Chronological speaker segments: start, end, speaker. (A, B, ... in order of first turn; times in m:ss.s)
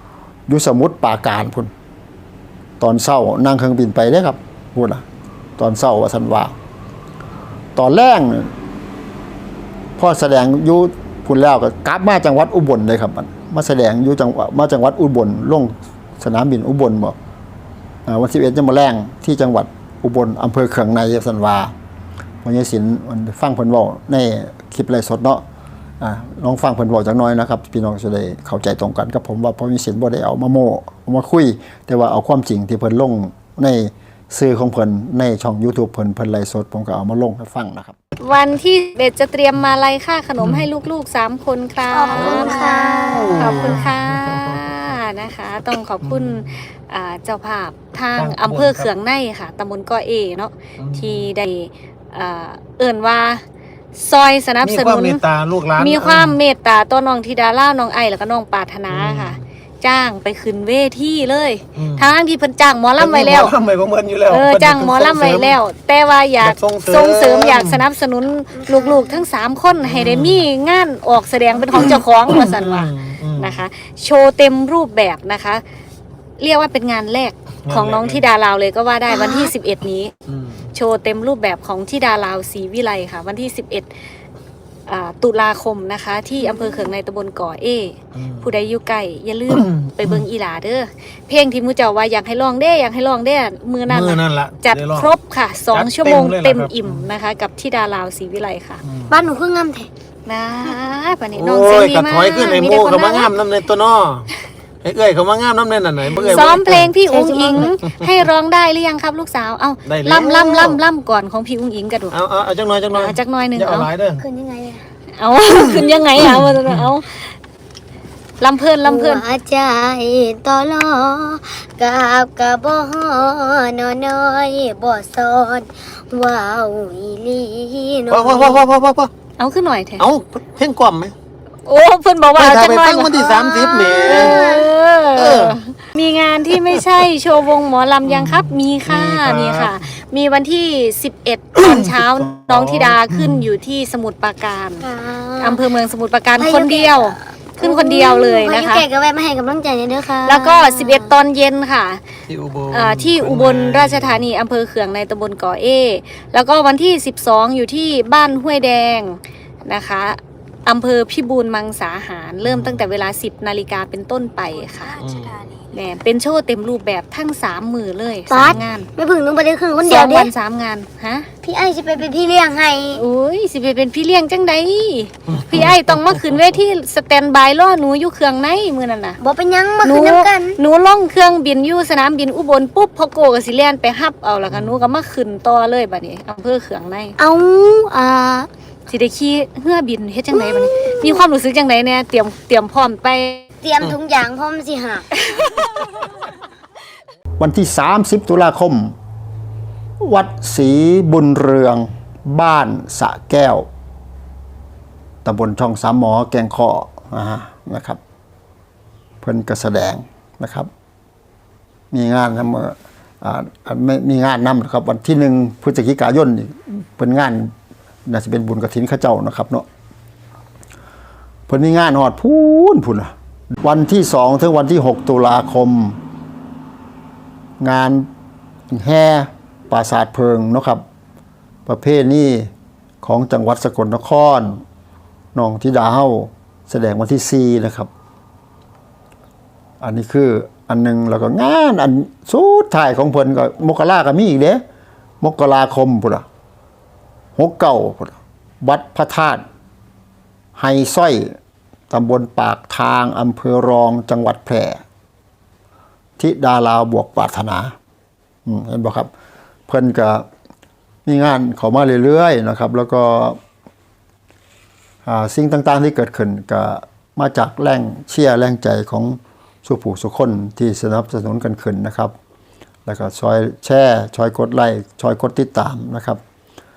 0:00.5-0:01.7 A
0:02.8-0:05.0 A
0:05.6-0:06.5 A
0:07.7-0:08.5 A
0:10.0-0:17.2 A
0:18.0-0:21.7 A
0:22.4-0:25.4 A
0:26.0-0:38.0 A
0:38.2-0:53.4 B
0:40.4-0:40.7 C
0:41.9-0:43.8 D
0:42.1-0:44.9 C
0:46.0-0:46.6 C
0:48.1-0:48.9 C
0:50.8-0:51.3 C
0:53.9-0:55.2 B
0:54.6-0:56.4 C
0:55.8-1:03.6 B
0:58.9-0:59.4 C
1:01.8-1:02.1 C
1:03.0-1:05.6 C
1:04.3-1:15.6 B
1:06.4-1:07.8 C
1:08.6-1:09.2 D
1:09.8-1:10.5 C
1:11.6-1:13.6 C
1:16.4-1:20.1 B
1:17.6-1:18.2 C
1:19.1-1:19.5 D
1:20.3-1:20.7 C
1:20.7-1:23.9 B
1:24.9-1:38.8 B
1:26.4-1:26.9 D
1:28.1-1:28.5 C
1:29.5-1:30.2 C
1:33.9-1:35.1 C
1:35.7-1:37.1 C
1:38.8-1:39.2 C
1:39.1-1:39.9 D
1:40.2-1:43.3 B
1:41.3-1:44.3 C
1:44.8-1:46.9 C
1:46.1-1:52.2 B
1:46.1-1:47.8 D
1:47.6-1:48.0 C
1:49.8-1:50.8 C
1:50.1-1:50.6 D
1:52.1-1:54.2 C
1:52.9-1:53.9 B
1:54.2-1:54.8 D
1:55.2-1:57.3 B
1:56.2-1:56.9 C
1:58.4-1:59.2 B
1:58.8-2:08.7 D
2:08.1-2:09.1 C
2:09.4-2:10.0 B
2:10.0-2:11.1 C
2:11.6-2:24.9 B
2:12.4-2:14.4 C
2:13.2-2:14.7 D
2:15.2-2:15.6 C
2:16.5-2:16.8 C
2:18.0-2:19.9 C
2:21.6-2:23.5 C
2:24.8-2:25.7 D
2:25.4-2:28.8 B
2:26.4-2:31.1 D
2:30.2-2:32.0 B
2:32.3-2:34.2 C
2:32.7-2:45.0 B
2:42.4-2:42.8 C
2:44.6-2:45.8 D
2:45.0-2:45.3 C
2:45.7-2:48.9 B
2:48.3-2:50.3 D
2:48.4-2:48.6 C
2:49.8-2:51.3 B
2:51.4-2:53.0 D
2:52.9-2:59.2 B
2:55.3-2:56.3 C
2:59.2-3:00.6 D
2:59.8-3:07.2 B
3:04.5-3:04.9 C
3:07.2-3:08.5 D
3:08.9-3:13.4 B
3:10.3-3:11.2 D
3:13.6-3:15.1 D
3:15.2-3:15.7 B
3:17.4-3:18.9 A
3:20.0-3:23.7 A
3:25.2-3:28.0 A
3:29.2-3:30.7 A
3:31.9-3:37.5 A
3:38.0-3:39.6 A
3:41.5-3:46.0 A
3:47.6-3:48.1 A
3:48.7-3:50.8 A
3:51.6-3:52.5 A
3:53.0-3:54.6 A
3:55.3-3:57.9 A
3:59.8-4:04.6 A
4:05.2-4:06.2 A
4:07.4-4:09.4 A
4:10.6-4:11.4 A
4:11.9-4:14.8 A
4:16.2-4:17.7 A
4:18.4-4:19.1 A
4:19.7-4:20.3 A
4:21.0-4:23.4 A
4:25.0-4:32.1 A
4:32.8-4:36.2 A